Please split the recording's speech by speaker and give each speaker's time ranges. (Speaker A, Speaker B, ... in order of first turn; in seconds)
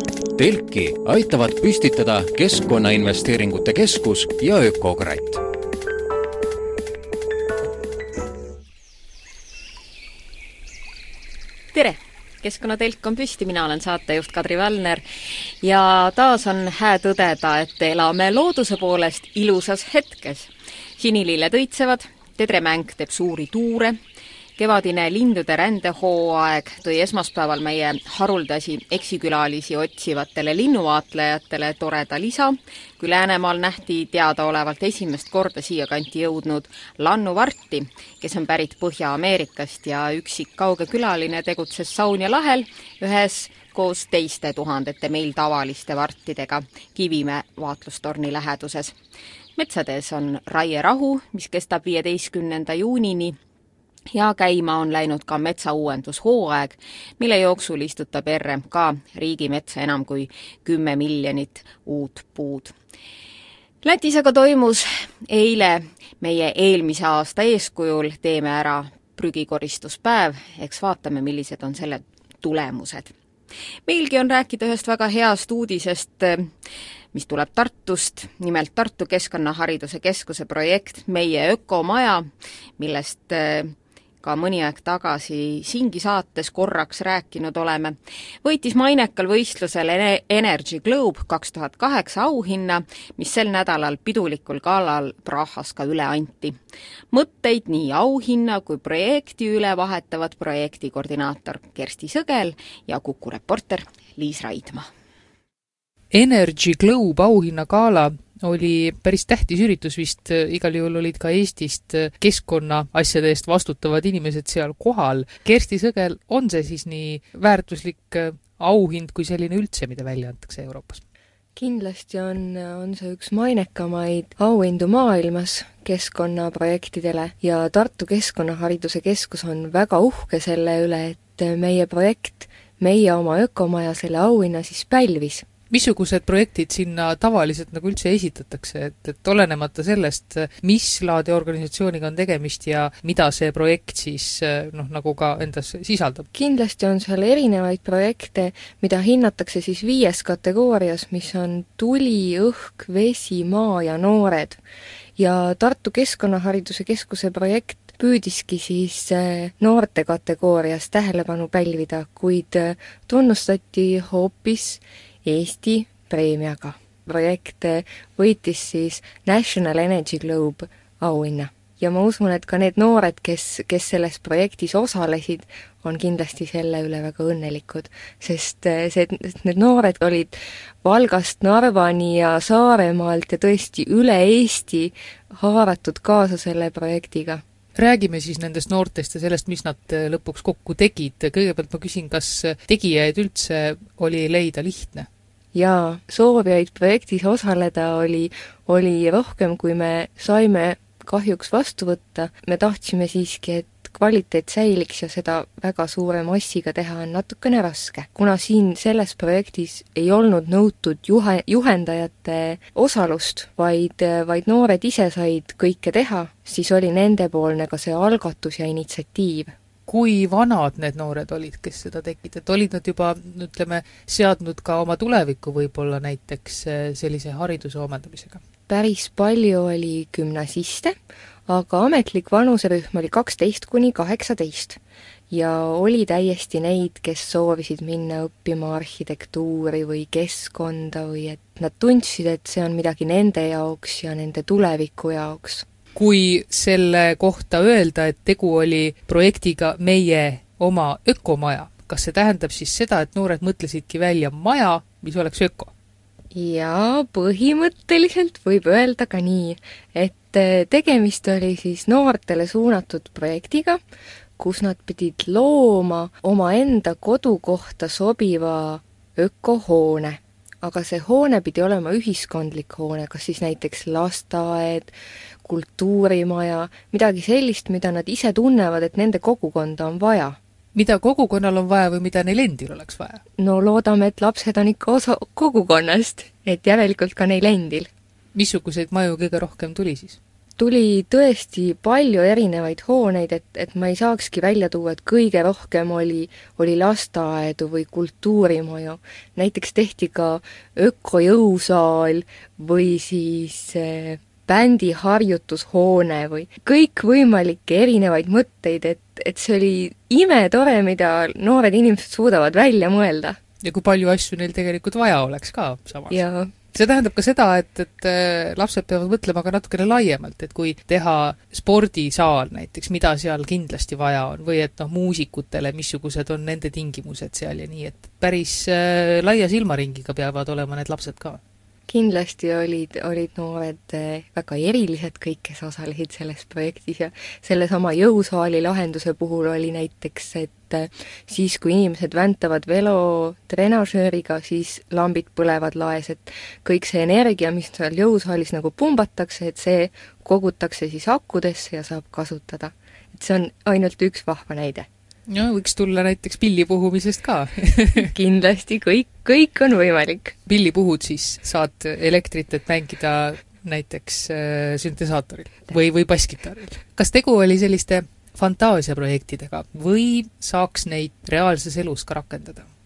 Speaker A: 0.3-5.4
Speaker B: 11.7-15.0, 15.6-24.0, 24.6-48.9, 49.6-53.4, 54.1-62.7, 63.8-73.1, 73.8-76.5, 77.1-82.3, 82.8-96.5, 97.1-104.9
Speaker C: 106.1-121.0, 135.7-146.2, 187.8-195.1, 219.8-228.4, 245.9-255.7, 280.7-283.2, 288.3-290.2, 313.6-316.2, 316.7-331.4, 355.3-358.0, 360.4-372.6
Speaker D: 121.5-135.4, 146.3-154.6, 155.2-187.4, 195.5-219.5, 228.7-230.9, 231.5-234.8, 235.3-245.6, 256.3-263.8, 264.4-280.4, 283.4-287.9, 290.6-313.4, 316.1-316.5, 331.9-354.9, 358.0-360.4